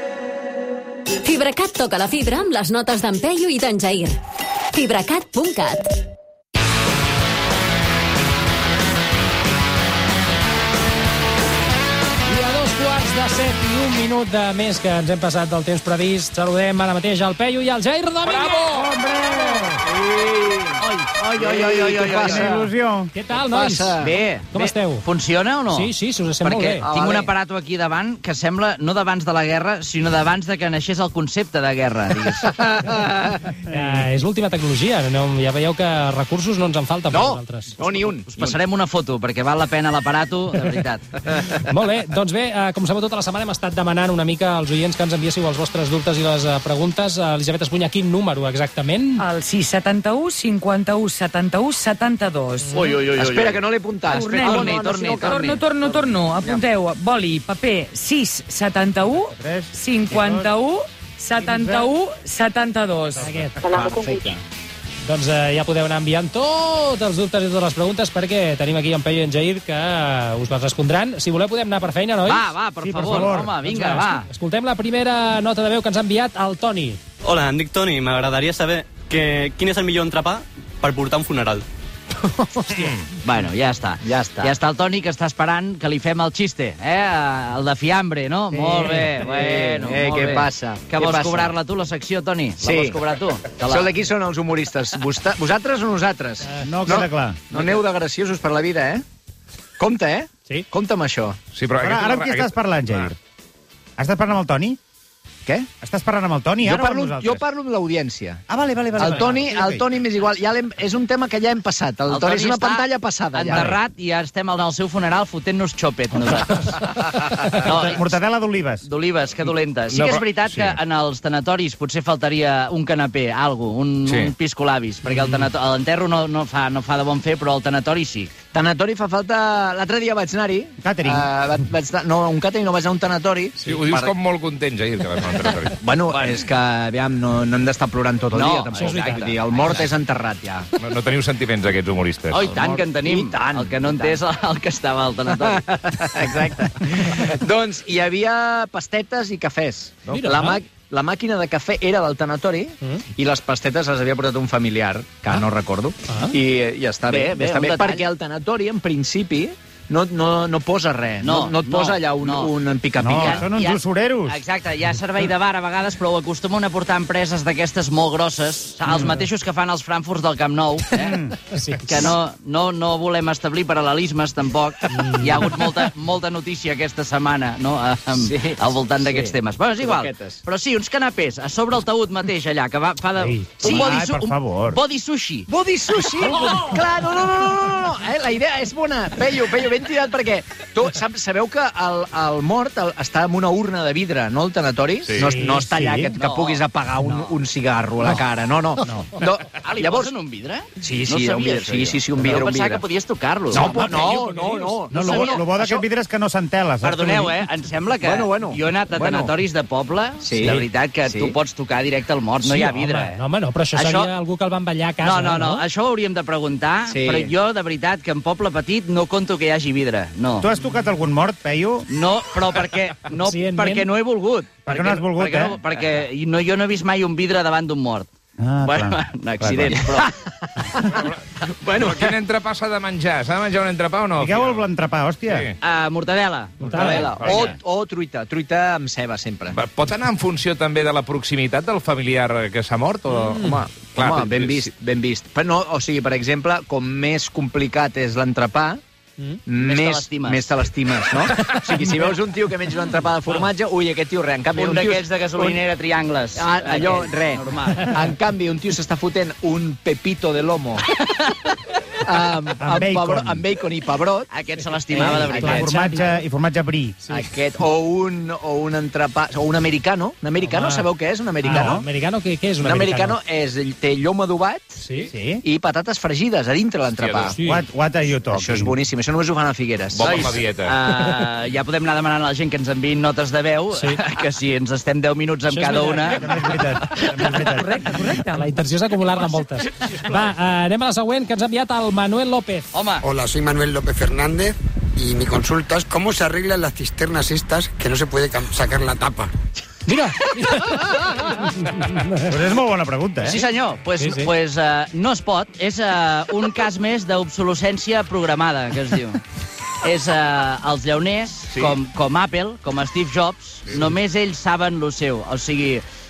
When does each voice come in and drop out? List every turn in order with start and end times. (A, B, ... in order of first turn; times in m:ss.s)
0:01.2-0:04.2 A
0:04.7-0:05.9 A
0:12.3-0:18.8 B
0:18.2-0:18.5 C
0:18.7-0:19.8 D
0:19.4-0:19.7 B
0:19.8-0:20.8 C
0:20.8-0:22.6 E
0:21.3-0:22.6 C
0:22.2-0:23.1 D
0:23.1-0:25.0 B
0:23.3-0:24.1 C
0:24.0-0:32.5 E
0:25.7-0:26.9 B
0:26.8-0:27.3 C
0:32.6-0:33.2 C
0:33.7-0:37.8 B
0:37.1-0:38.6 C
0:37.8-0:41.1 E
0:41.3-0:49.2 B
0:49.2-0:52.8 F
0:52.7-0:56.6 C
0:54.1-1:03.3 F
0:54.1-0:55.6 E
0:59.3-1:00.5 D
1:01.4-1:01.9 D
1:03.2-1:03.6 B
1:03.2-1:03.5 D
1:03.7-1:04.4 C
1:05.0-1:12.5 B
1:12.2-1:14.2 E
1:12.8-1:13.5 D
1:13.0-1:17.0 B
1:17.2-1:21.6 G
1:22.7-1:23.1 H
1:23.2-1:33.9 E
1:24.0-1:24.5 C
1:28.5-1:31.5 C
1:32.6-1:33.0 C
1:33.6-1:39.0 C
1:36.6-1:37.4 D
1:39.8-1:41.4 C
1:41.5-1:43.0 H
1:41.8-1:43.2 D
1:44.0-1:44.8 D
1:45.4-1:47.4 D
1:46.6-1:48.4 C
1:48.5-1:49.9 D
1:49.0-1:53.8 C
1:52.1-1:58.2 E
1:53.5-1:53.8 D
1:57.6-1:58.8 D
1:58.8-2:08.3 E
1:59.9-2:00.6 H
2:04.0-2:04.3 H
2:05.1-2:05.4 B
2:08.5-2:14.1 C
2:10.8-2:11.3 D
2:13.6-2:15.8 H
2:15.8-2:20.7 C
2:16.1-2:16.4 E
2:18.3-2:19.8 E
2:18.7-2:19.4 B
2:20.8-2:22.5 H
2:22.3-2:26.0 E
2:22.4-2:24.2 C
2:26.0-2:43.4 C
2:30.1-2:30.6 B
2:36.1-2:36.3 B
2:37.1-2:38.0 E
2:41.2-2:42.5 E
2:43.0-2:44.4 D
2:43.0-2:51.2 E
2:50.9-2:51.3 D
2:51.5-2:52.0 B
2:51.9-3:05.5 E
2:54.9-2:55.5 B
2:58.1-3:00.4 C
3:03.6-3:04.8 D
3:05.5-3:20.1 C
3:15.1-3:15.4 H
3:15.3-3:16.1 D
3:16.1-3:16.6 E
3:18.8-3:19.1 D
3:19.6-3:25.4 E
3:20.8-3:22.8 C
3:23.5-3:25.9 C
3:24.9-3:27.3 D
3:26.8-3:33.2 E
3:28.0-3:29.3 C
3:30.2-3:31.3 C
3:32.4-3:35.6 B
3:33.7-3:34.1 E
3:35.0-3:40.5 E
3:36.9-3:37.3 C
3:40.4-3:41.9 D
3:41.9-3:48.1 E
3:43.2-3:43.9 B
3:44.7-3:45.6 D
3:48.4-3:49.8 D
3:48.6-3:50.1 E
3:49.7-3:50.9 C
3:51.6-3:52.1 C
3:51.7-3:54.6 H
3:54.2-3:55.5 D
3:55.3-3:55.5 H
3:55.6-3:57.5 E
3:56.6-3:57.1 B
3:56.7-3:59.6 C
3:57.0-3:57.5 H
3:59.5-4:04.7 H
4:03.3-4:08.8 C
4:09.5-4:15.6 C
4:09.6-4:10.6 E
4:14.5-4:18.0 E
4:16.4-4:20.8 C
4:22.0-4:24.3 C
4:22.6-4:23.4 D
4:24.3-4:25.9 E
4:24.9-4:26.2 B
4:24.9-4:25.6 C
4:25.3-4:27.0 D
4:27.1-4:31.8 C
4:30.4-4:30.9 B
4:31.4-4:33.2 B
4:31.5-4:31.8 D
4:32.6-4:34.8 C
4:34.8-4:35.1 B
4:35.1-4:35.4 D
4:35.4-4:37.3 C
4:36.9-4:37.3 H
4:37.3-4:37.6 B
4:37.4-4:38.7 D
4:38.3-4:40.3 C
4:39.9-4:40.8 H
4:40.0-4:46.2 E
4:43.7-4:44.0 B
4:45.5-4:46.3 B
4:46.1-4:47.7 D
4:47.2-4:49.4 F
4:48.3-4:52.7 B
4:52.7-4:53.1 E
4:53.0-4:59.3 I
4:59.9-5:02.4 B
5:02.3-5:03.4 D
5:03.2-5:09.2 E
5:04.0-5:04.3 B
5:09.8-5:15.8 E